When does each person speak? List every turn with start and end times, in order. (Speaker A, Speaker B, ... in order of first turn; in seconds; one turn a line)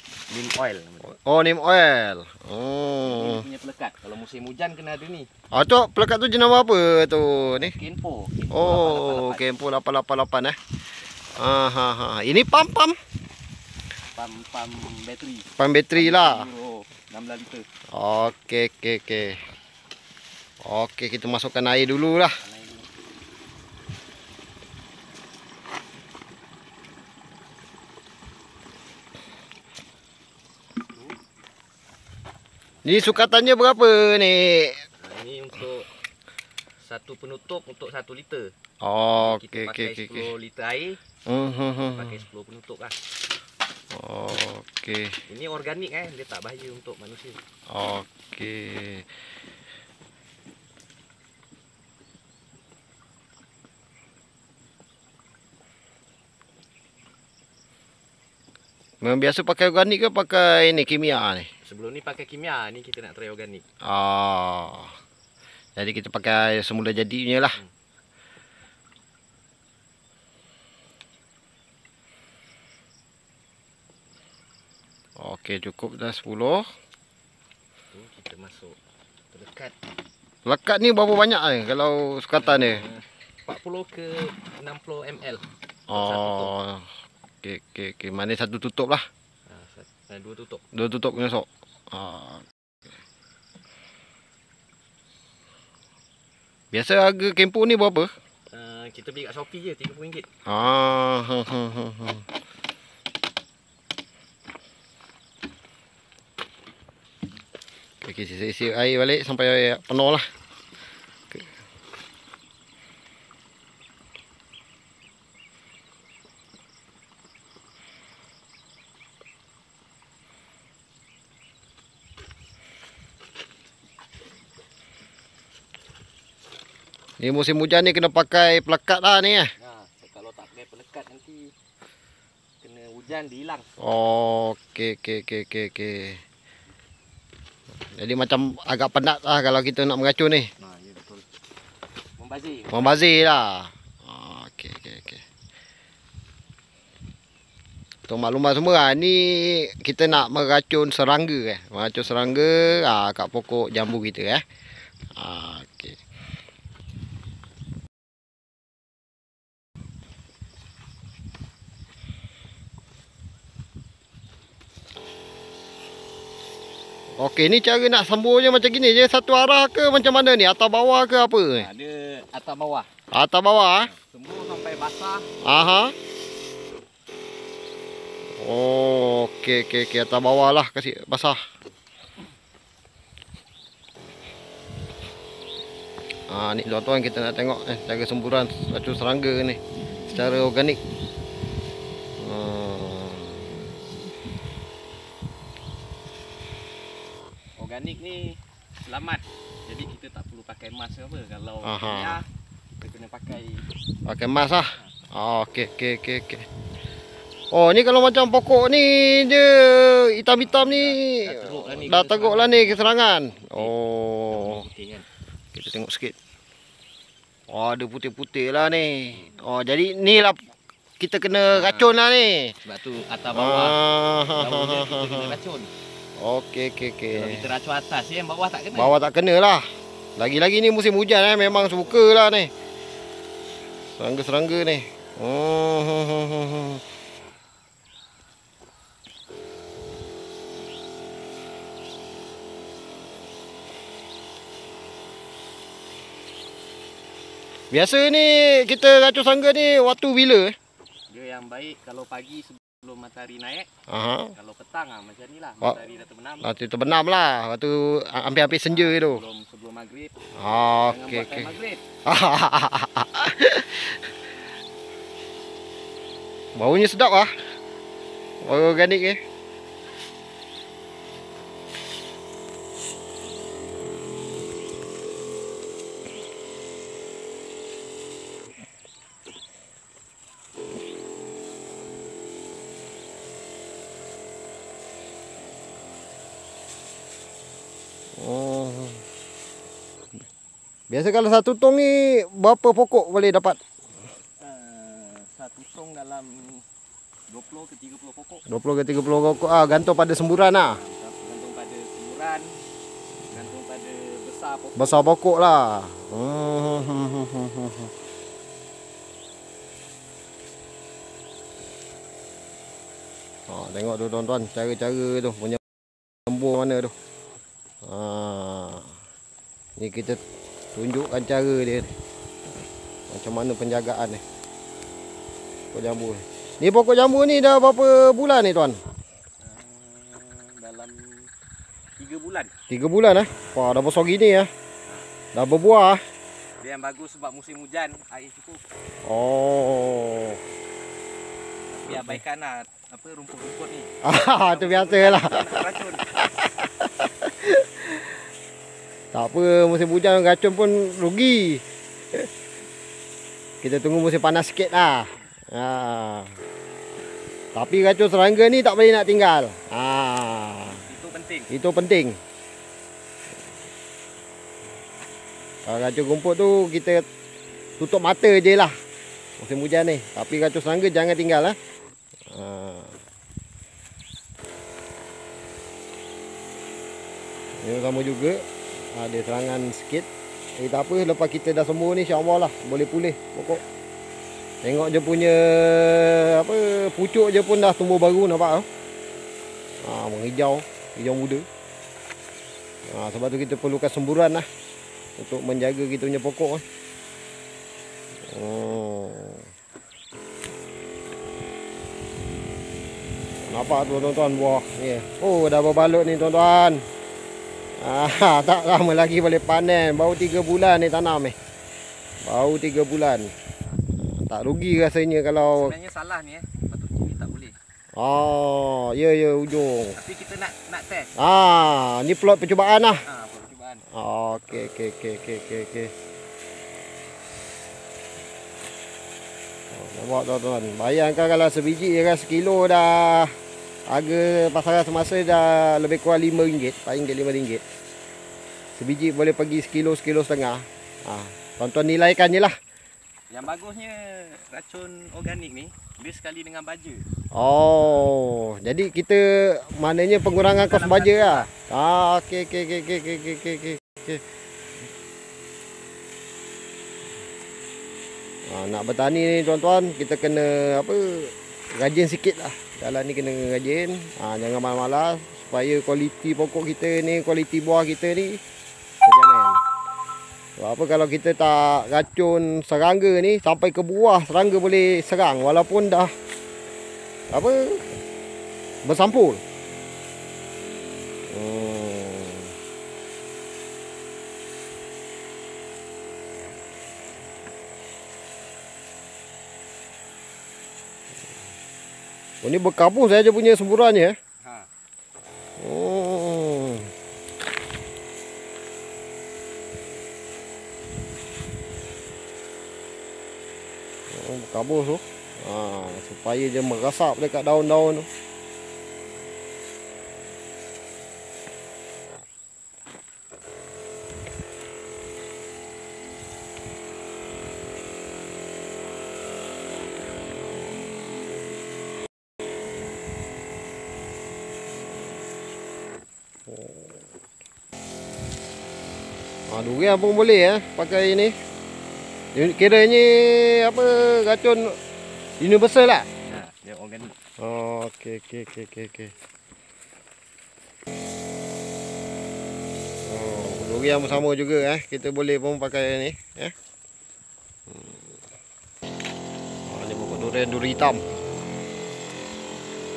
Speaker A: 0.3-1.1
Speaker B: 1.1-3.5
Speaker A: 3.0-5.3
Speaker B: 5.5-7.7
Speaker A: 7.5-9.4
Speaker B: 8.5-10.6
Speaker B: 11.3-13.0
Speaker A: 14.1-17.6
Speaker B: 15.6-16.5
Speaker B: 17.9-19.4
Speaker B: 20.6-22.4
Speaker A: 22.2-22.9
Speaker B: 32.8-34.8
Speaker A: 35.0-35.9
Speaker A: 36.8-38.5
Speaker B: 38.8-40.3
Speaker A: 39.1-41.0
Speaker B: 41.3-42.2
Speaker A: 41.9-43.0
Speaker B: 43.9-45.2
Speaker A: 45.3-47.4
Speaker B: 47.7-49.1
Speaker B: 59.0-61.5
Speaker A: 61.6-63.6
Speaker B: 63.8-65.0
Speaker B: 65.8-67.6
Speaker B: 75.2-76.7
Speaker A: 77.9-78.8
Speaker A: 79.3-79.8
Speaker B: 80.4-82.8
Speaker A: 82.4-86.5
Speaker B: 85.9-86.9
Speaker B: 87.4-89.0
Speaker A: 89.5-90.6
Speaker B: 90.7-92.4
Speaker B: 96.7-98.1
Speaker A: 98.5-100.3
Speaker B: 100.5-102.2
Speaker B: 108.0-110.3
Speaker B: 127.2-129.5
Speaker A: 129.6-131.5
Speaker A: 132.6-133.7
Speaker B: 133.8-136.2
Speaker B: 137.9-140.5
Speaker A: 140.6-141.2
Speaker A: 142.2-143.0
Speaker B: 142.7-145.2
Speaker B: 148.1-154.4
Speaker B: 155.1-156.0
Speaker B: 167.2-171.7
Speaker A: 171.6-172.9
Speaker B: 173.1-173.9
Speaker A: 173.9-175.3
Speaker B: 175.4-175.9
Speaker B: 178.4-181.4
Speaker B: 186.3-190.8
Speaker B: 192.2-193.5
Speaker A: 197.6-202.2
Speaker B: 201.6-202.2
Speaker A: 202.8-203.7
Speaker B: 204.0-206.5
Speaker B: 207.5-214.7
Speaker A: 210.3-212.9
Speaker A: 214.3-215.0
Speaker B: 215.5-216.1
Speaker B: 217.5-220.4
Speaker B: 221.0-222.6
Speaker A: 221.5-221.9
Speaker A: 222.6-225.7
Speaker B: 223.3-225.4
Speaker B: 226.2-227.5
Speaker A: 227.1-229.0
Speaker B: 228.7-229.7
Speaker B: 230.2-232.5
Speaker B: 233.9-236.8
Speaker B: 247.7-250.6
Speaker A: 251.1-253.7
Speaker B: 253.9-254.3
Speaker A: 254.3-256.5
Speaker B: 256.4-259.2
Speaker A: 258.6-261.8
Speaker B: 260.4-261.5
Speaker B: 262.1-264.1
Speaker B: 266.5-267.3
Speaker B: 268.4-269.2
Speaker B: 288.1-289.0
Speaker B: 290.9-293.6
Speaker A: 294.4-296.6
Speaker A: 297.3-298.4
Speaker B: 298.5-300.8
Speaker A: 300.4-302.6
Speaker A: 303.3-305.0
Speaker B: 304.8-307.9
Speaker B: 313.5-315.6
Speaker B: 316.2-316.9
Speaker B: 317.8-318.9
Speaker B: 319.8-320.2
Speaker B: 320.7-321.9
Speaker B: 323.1-324.2
Speaker B: 325.7-328.8
Speaker A: 329.4-331.3
Speaker A: 332.0-332.5
Speaker B: 332.7-334.5
Speaker B: 335.3-336.0
Speaker A: 336.6-338.6
Speaker B: 339.0-340.4
Speaker A: 341.7-343.9
Speaker B: 341.9-342.2
Speaker B: 344.0-345.5
Speaker A: 344.4-346.1
Speaker B: 346.2-348.1
Speaker B: 349.1-352.3
Speaker B: 353.6-356.4
Speaker B: 357.5-360.8
Speaker A: 360.7-361.5
Speaker B: 361.5-362.2
Speaker B: 365.6-367.1
Speaker B: 367.8-368.7
Speaker B: 369.4-371.6
Speaker B: 372.3-373.0
Speaker B: 377.6-383.6
Speaker B: 384.6-388.6
Speaker B: 389.8-391.5
Speaker B: 392.9-394.4
Speaker B: 395.2-396.6
Speaker B: 398.2-399.5
Speaker B: 403.4-406.9
Speaker B: 407.8-411.3
Speaker B: 412.2-413.3
Speaker B: 413.9-415.7
Speaker A: 415.5-417.6
Speaker B: 417.9-420.0
Speaker A: 419.9-421.1
Speaker B: 421.2-423.0
Speaker A: 423.0-423.8
Speaker B: 423.9-425.9
Speaker B: 429.7-433.3
Speaker B: 433.9-437.6
Speaker B: 438.8-442.6
Speaker A: 443.3-447.1
Speaker B: 447.3-454.2
Speaker A: 450.4-451.5
Speaker B: 458.5-468.4
Speaker B: 469.0-469.6
Speaker B: 470.6-476.1
Speaker B: 477.3-478.0
Speaker B: 478.8-479.4
Speaker B: 481.3-482.5
Speaker B: 492.4-494.1
Speaker A: 494.4-494.7
Speaker B: 495.6-496.9
Speaker B: 504.1-508.1
Speaker B: 526.5-527.0
Speaker B: 529.5-531.3
Speaker B: 532.3-534.8
Speaker B: 535.4-536.1
Speaker A: 536.3-537.1
Speaker B: 537.4-539.1
Speaker B: 543.0-546.5
Speaker B: 547.7-548.1
Speaker B: 549.7-551.0